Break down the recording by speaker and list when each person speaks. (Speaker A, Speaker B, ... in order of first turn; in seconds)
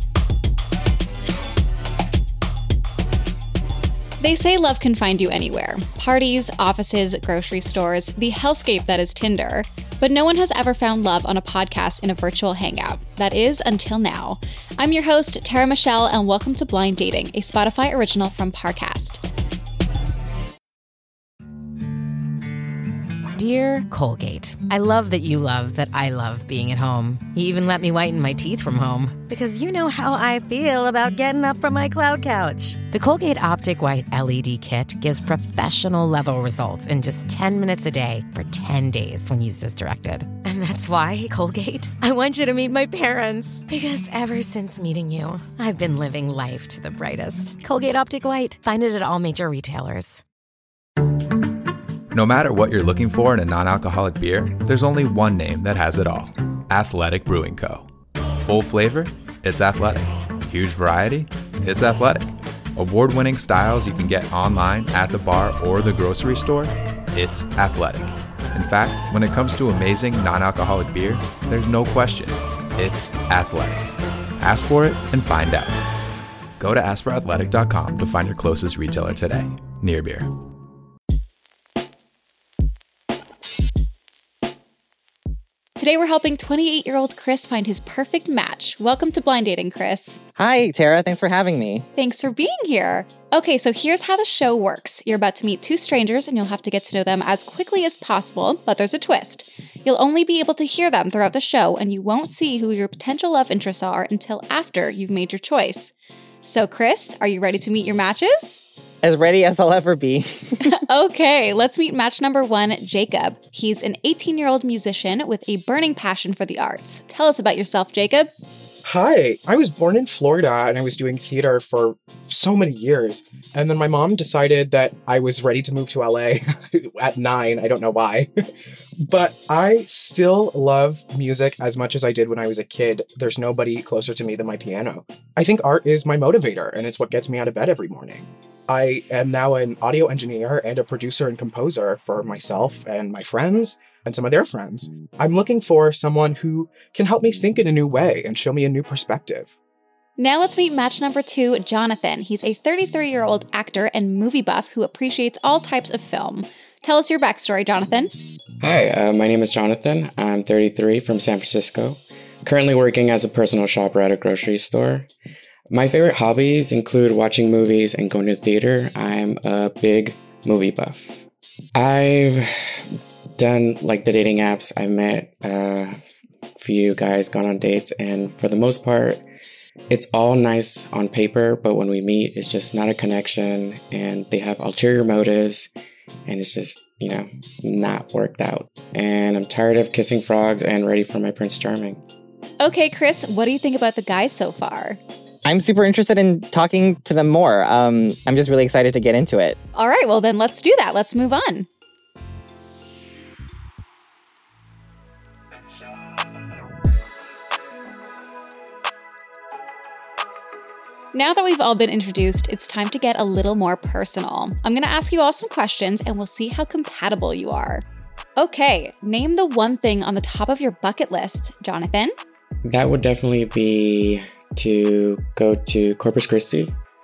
Speaker A: 4.2-19.2, 85.8-90.2, 92.0-105.9, 106.4-108.7, 110.7-118.3, 150.2-158.1, 192.6-195.0, 199.8-201.7, 211.1-217.8, 218.4-222.2
Speaker B: 23.4-50.2
Speaker C: 52.1-73.8, 74.4-75.8, 76.6-80.3
Speaker D: 90.4-91.9, 109.0-110.7, 195.4-199.6
Speaker E: 118.8-128.3, 129.0-149.5
Speaker F: 158.6-165.1, 165.7-176.0, 176.6-179.2, 179.9-185.7, 186.2-192.0, 222.6-226.8